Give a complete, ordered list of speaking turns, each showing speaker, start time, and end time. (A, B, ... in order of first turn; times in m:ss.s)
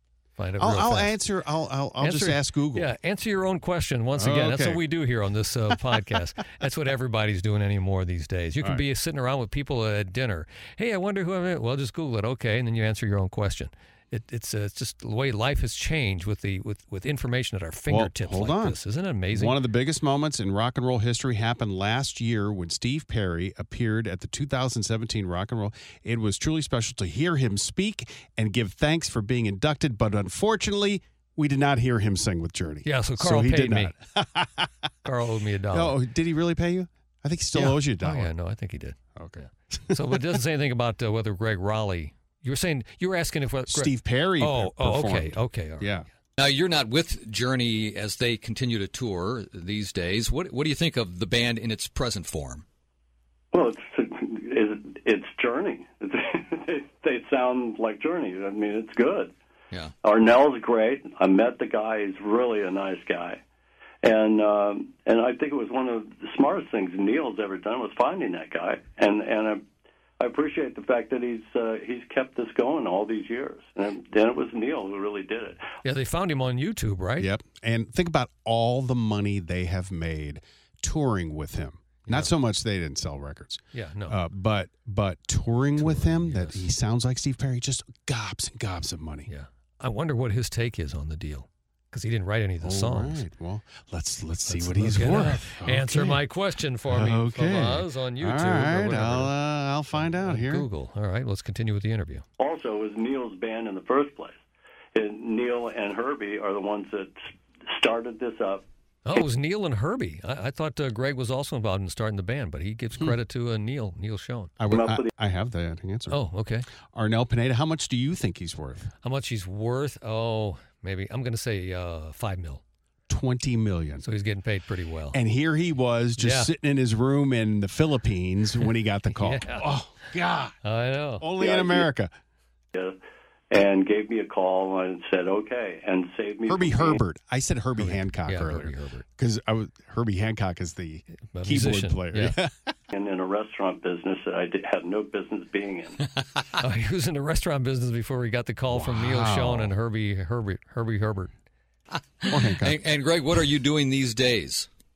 0:00.4-0:01.2 A
0:00.6-0:02.9 B
0:02.0-0:19.6 A
0:04.2-0:04.8 B
0:17.9-0:18.8 B
0:19.3-0:34.7 B
0:32.8-0:34.0 A
0:35.0-0:36.0 A
0:35.7-0:38.3 B
0:37.6-0:46.0 A
0:39.2-0:40.0 B
0:43.7-0:46.1 B
0:46.4-0:52.6 C
0:53.5-0:59.3 D
1:00.0-1:03.4 D
1:04.0-1:09.6 D
1:10.2-1:15.6 D
1:15.8-1:17.3 A
1:17.2-1:29.3 B
1:22.1-1:22.3 A
1:23.7-1:24.2 A
1:25.8-1:26.7 A
1:29.3-1:33.2 A
1:32.6-1:36.2 B
1:34.5-1:42.2 A
1:36.9-1:40.7 B
1:42.4-1:44.4 D
1:44.9-1:49.2 D
1:49.1-1:54.6 A
1:54.6-1:56.2 B
1:54.7-1:55.1 D
1:56.1-1:56.7 A
1:56.9-1:58.9 B
1:59.0-2:02.6 A
2:03.1-2:04.0 B
2:04.0-2:05.2 A
2:05.1-2:10.6 B
2:06.2-2:06.5 A
2:09.2-2:09.7 A
2:10.6-2:11.3 A
2:11.2-2:12.1 B
2:11.4-2:11.9 D
2:13.5-2:17.0 D
2:16.5-2:22.7 B
2:17.8-2:19.0 A
2:21.3-2:22.4 A
2:22.9-2:26.0 D
2:26.6-2:31.3 A
2:28.7-2:29.7 B
2:31.9-2:34.7 C
2:32.3-2:32.8 B